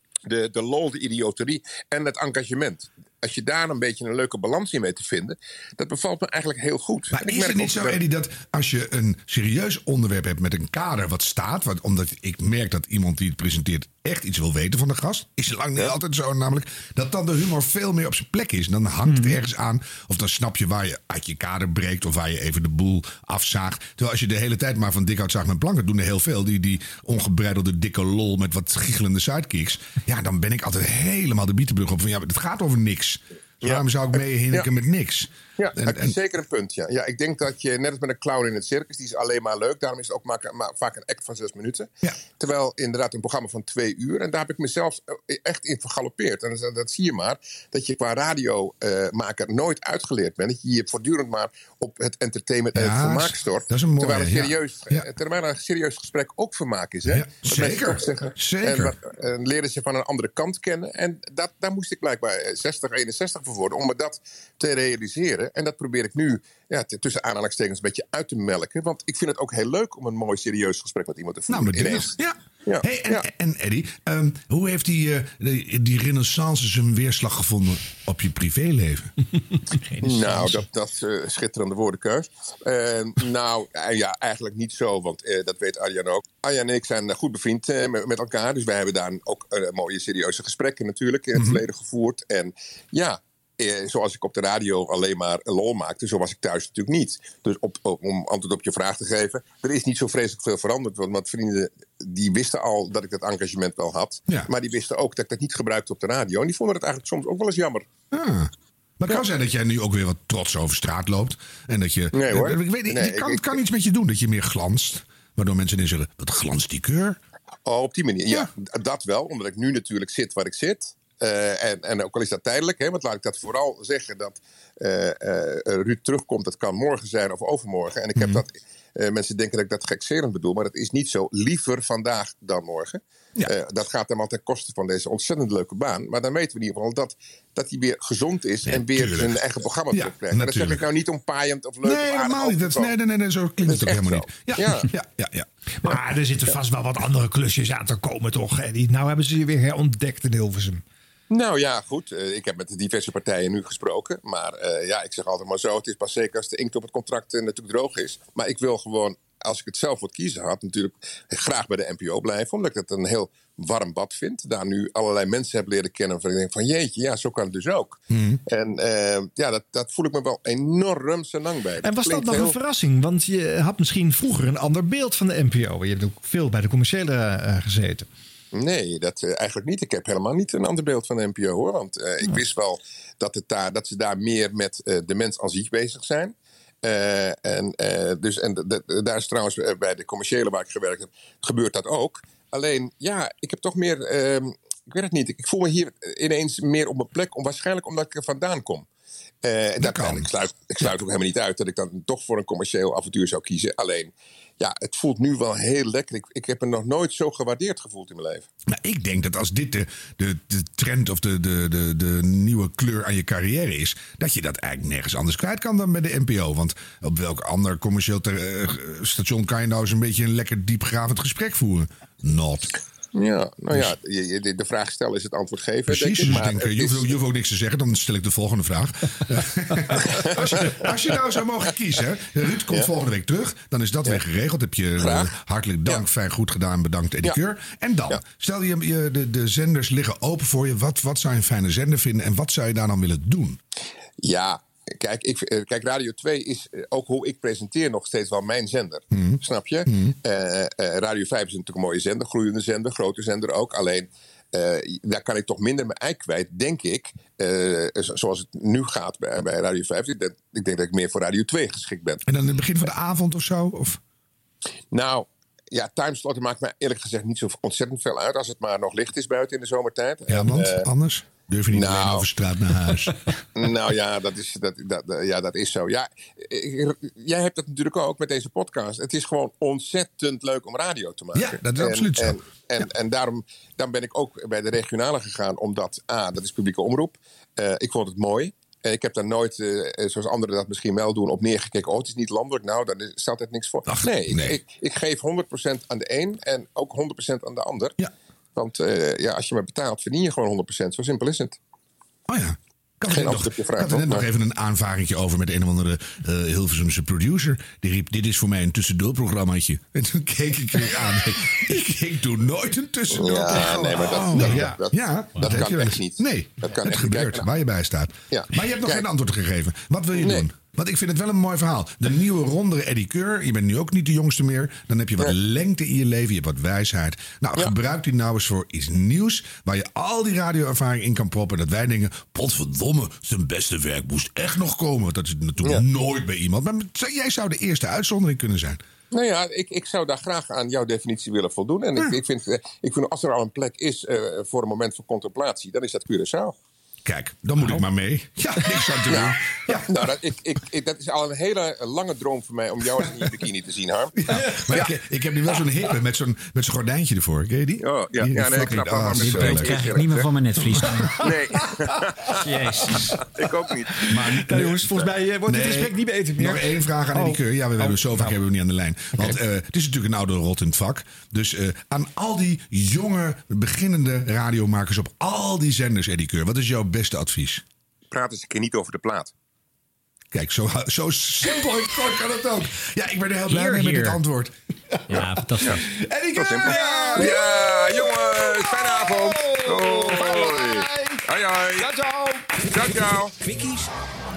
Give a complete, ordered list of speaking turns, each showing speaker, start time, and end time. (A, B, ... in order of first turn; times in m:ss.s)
0:00.3-0:08.0 A
0:07.1-0:36.2 B
0:33.6-0:34.7 A
0:35.6-1:13.3 A
0:52.8-0:55.1 B
0:57.1-0:59.0 B
1:11.5-1:19.1 B
1:20.0-1:47.9 A
1:31.4-1:31.6 B
1:48.1-1:57.2 B
1:52.1-1:53.6 A
1:57.6-2:23.0 A
2:08.2-2:08.4 B
2:18.6-2:19.4 B
2:19.9-2:20.8 B
2:21.8-2:25.5 B
2:23.6-2:24.9 A
2:25.8-2:30.8 C
2:31.3-2:52.6 A
2:48.1-2:48.4 B
2:51.8-2:58.1 C
2:58.5-3:18.9 A
3:19.4-3:28.5 A
3:19.8-3:20.3 B
3:28.7-3:42.7 B
3:43.2-3:47.2 A
3:45.9-4:03.6 B
3:50.1-3:51.2 A
3:55.0-3:55.3 A
4:04.2-4:22.2 A
4:09.1-4:10.2 B
4:22.3-4:24.0 B
4:24.9-4:30.9 A
4:30.3-4:33.2 B
4:31.7-4:32.3 A
4:33.6-4:58.0 A
4:41.3-4:42.4 B
4:53.9-4:54.6 B
4:58.6-5:01.6 A
5:02.3-5:38.8 B
5:03.1-5:04.3 A
5:13.1-5:17.5 A
5:13.6-5:14.8 C
5:18.3-5:19.0 A
5:20.2-5:20.5 A
5:39.1-5:46.6 A
5:47.0-5:49.9 B
5:49.1-5:49.4 A
5:49.9-5:54.2 A
5:54.2-6:00.0 B
5:54.4-5:54.6 C
5:57.8-6:00.3 A
5:59.2-6:01.2 D
6:01.2-6:02.4 A
6:02.4-6:03.2 D
6:03.4-6:04.0 A
6:04.1-6:17.6 B
6:04.1-6:08.4 C
6:18.1-6:19.3 A
6:20.3-6:24.5 B
6:23.5-6:24.2 D
6:25.1-6:25.8 D
6:25.1-6:33.0 C
6:26.4-6:31.8 A
6:32.7-6:33.3 A
6:32.8-6:33.9 D